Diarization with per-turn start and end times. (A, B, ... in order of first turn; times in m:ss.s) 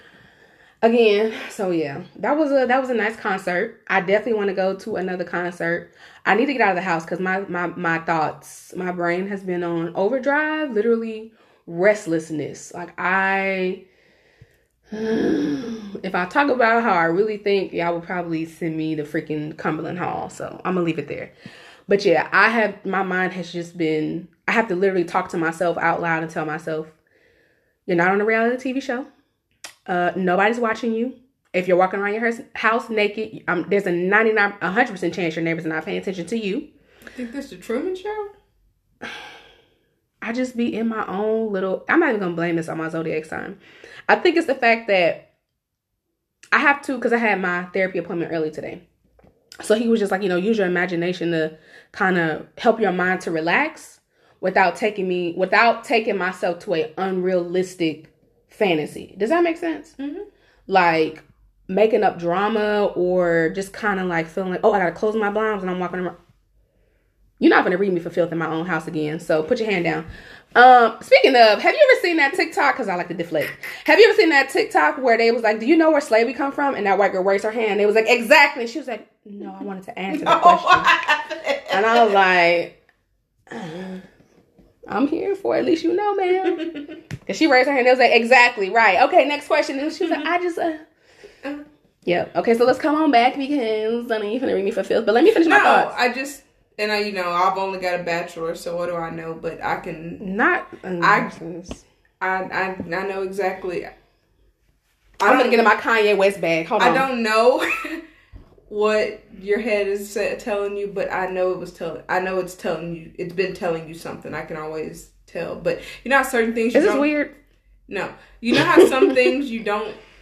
0:00.8-0:13.8 A
0:14.9-0:21.3 A
0:21.9-0:26.9 A
0:27.9-0:29.1 A
0:29.9-0:36.7 A
0:37.2-0:38.3 B
0:40.2-0:45.2 A
0:46.5-0:48.8 A
0:49.6-1:00.0 A
1:00.0-1:00.3 B
1:00.7-1:06.2 A
1:07.4-1:20.9 A
1:20.1-1:22.2 B
1:21.7-1:22.8 A
1:23.5-1:24.0 A
1:24.9-1:26.7 A
1:27.3-1:30.8 A
1:32.1-1:35.9 A
1:35.3-1:40.2 B
1:40.2-1:41.8 A
1:41.0-1:41.4 B
1:42.2-1:43.9 B
1:45.2-1:45.7 B
1:45.2-1:47.1 A
1:46.8-1:48.0 B
1:48.7-1:57.1 B
1:56.7-1:57.3 A
1:57.9-2:00.0 B
1:58.7-1:59.2 A